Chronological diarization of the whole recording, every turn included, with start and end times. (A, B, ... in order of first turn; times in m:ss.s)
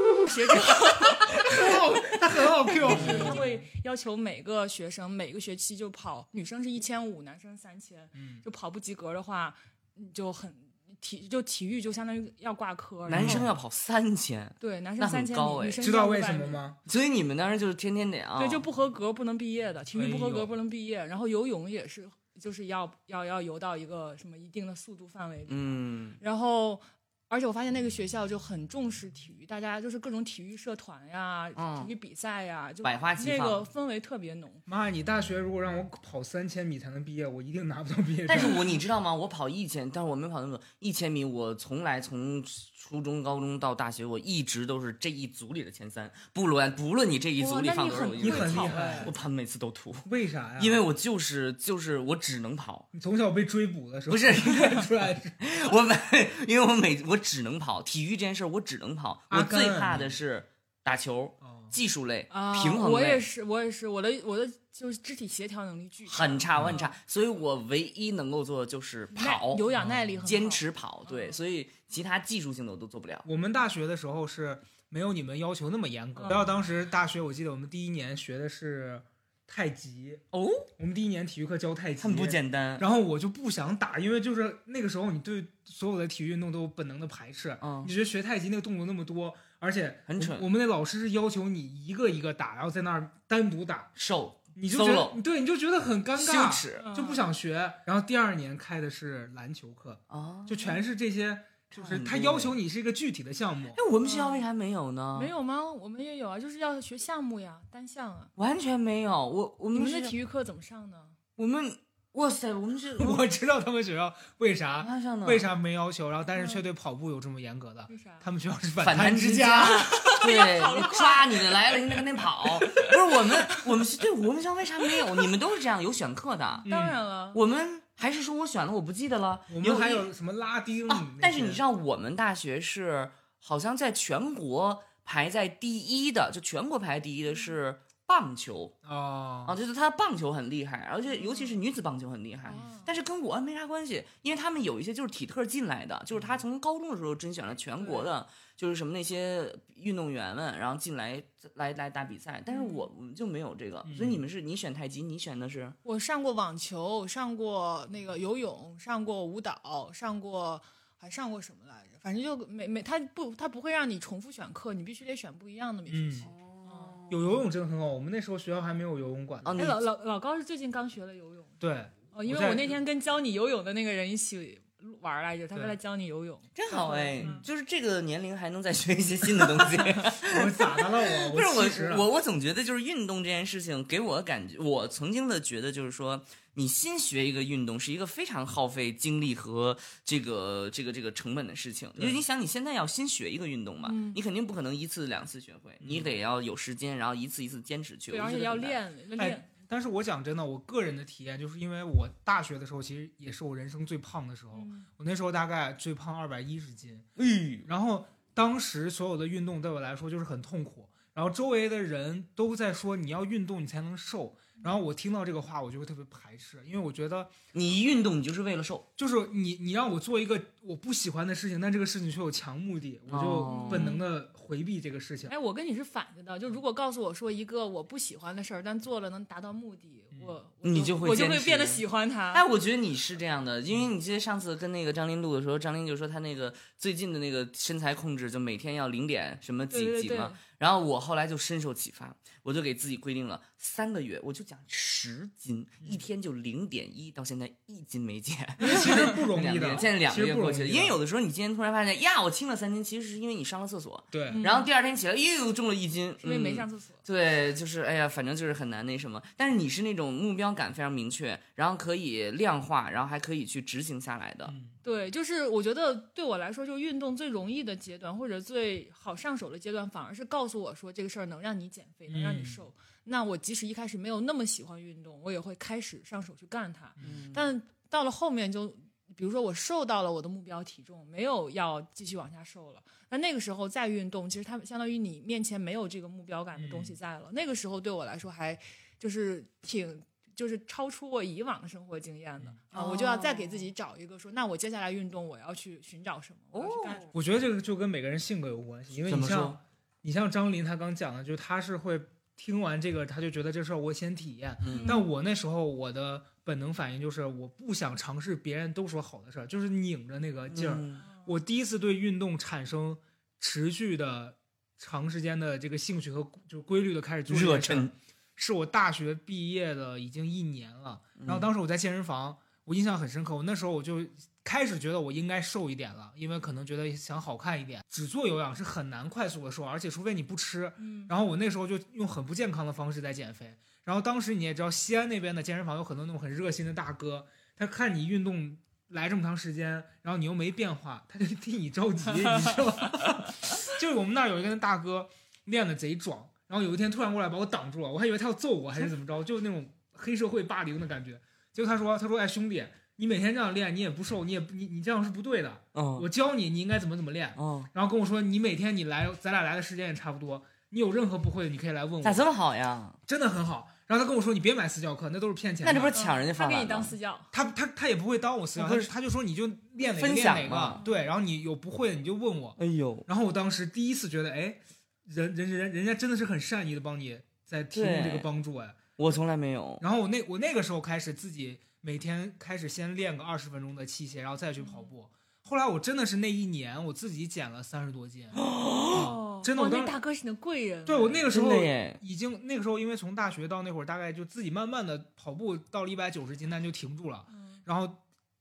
0:00.2-0:13.5 A
0:01.4-0:03.6 B
0:02.8-0:03.4 C
0:08.2-0:08.4 B
0:13.1-0:15.8 C
0:13.1-0:13.5 B
0:14.6-0:16.6 A
0:15.8-0:16.8 B
0:16.8-0:18.6 C
0:18.4-0:34.6 A
0:19.9-0:20.5 B
0:25.5-0:26.2 C
0:31.6-0:31.9 C
0:32.8-0:33.7 C
0:34.7-0:38.7 B
0:38.2-0:52.9 C
0:47.4-0:49.1 A
0:48.2-0:49.2 B
0:50.0-0:50.8 B
0:52.9-0:55.4 B
0:54.1-0:54.9 C
0:55.4-1:03.3 C
0:59.3-1:00.2 B
1:01.4-1:01.7 B
1:02.3-1:06.9 A
1:06.1-1:09.6 C
1:06.6-1:06.8 B
1:09.1-1:11.4 A
1:09.7-1:10.3 B
1:10.2-1:13.2 C
1:13.2-1:20.2 B
1:16.2-1:16.5 A
1:20.3-1:20.6 C
1:20.8-1:33.9 B
1:22.0-1:22.8 C
1:27.6-1:27.9 C
1:30.1-1:30.4 C
1:34.0-1:35.2 C
1:34.6-1:43.8 B
1:36.2-1:36.9 C
1:36.8-1:37.3 A
1:40.1-1:40.8 C
1:41.7-1:42.6 C
1:43.7-1:45.3 C
1:44.0-1:44.4 A
1:45.1-1:48.3 A
1:48.4-1:50.1 C
1:49.7-1:51.2 A
1:51.4-1:53.2 C
1:53.0-2:00.1 B
1:54.8-1:55.4 C
1:56.3-1:56.6 A
1:57.9-1:58.2 A
1:58.8-2:06.6 C
1:59.9-2:01.6 A
2:06.6-2:07.4 A
2:06.6-2:07.0 B
2:07.3-2:10.1 C
2:09.5-2:11.6 B
2:10.9-2:18.7 C
2:18.8-2:19.6 B
2:19.4-2:35.8 C
2:21.1-2:21.6 A
2:22.4-2:22.9 A
2:26.1-2:26.4 B
2:27.8-2:28.1 A
2:32.5-2:32.9 A
2:33.8-2:34.2 B
2:35.8-2:47.0 A
2:45.9-2:46.3 B
2:46.2-2:47.4 C
2:47.1-2:49.5 B
2:49.4-2:49.8 C
2:49.6-2:51.6 A
2:51.6-2:52.8 B
2:52.1-2:57.4 A
2:56.5-3:18.8 C
2:57.2-2:57.4 B
3:00.2-3:02.0 B
3:12.0-3:12.2 B
3:13.8-3:14.2 A
3:15.8-3:16.1 B
3:18.1-3:19.5 A
3:19.2-3:27.0 B
3:24.5-3:24.9 A
3:27.2-3:27.7 C
3:27.6-3:37.3 B
3:37.5-3:38.9 C
3:39.0-3:45.3 B
3:43.1-3:44.0 C
3:43.4-3:44.0 A
3:45.2-3:52.4 A
3:50.6-4:24.5 C
3:59.7-4:00.4 A
4:08.6-4:11.0 B
4:08.6-4:09.0 A
4:14.1-4:14.4 B
4:14.3-4:14.7 A
4:16.2-4:17.0 A
4:24.5-4:24.7 B
4:24.8-4:57.1 A
4:32.1-4:32.6 B
4:37.0-4:37.2 B
4:37.0-4:37.5 C
4:46.6-4:47.0 B
4:52.7-4:53.7 C
4:56.5-4:57.0 C
4:57.1-6:02.3 B
4:59.1-4:59.6 C
5:04.6-5:05.0 C
5:04.7-5:05.1 A
5:10.5-5:11.0 C
5:11.0-5:11.3 A
5:17.3-5:17.9 C
5:21.2-5:21.5 C
5:30.8-5:31.1 A
5:55.7-5:56.1 C
5:57.4-5:57.7 C
6:02.0-6:03.0 C
6:03.0-6:06.0 B
6:05.6-6:06.9 C
6:05.9-6:07.3 A
6:07.3-6:18.9 B
6:08.6-6:08.9 C
6:09.8-6:10.8 C
6:10.8-6:11.1 A
6:12.6-6:13.0 C
6:17.7-6:18.3 C
6:19.0-6:19.8 C
6:19.8-6:29.9 B
6:24.6-6:24.9 A
6:28.4-6:29.1 C
6:28.9-6:31.2 A
6:30.8-6:38.0 B
6:31.3-6:32.0 C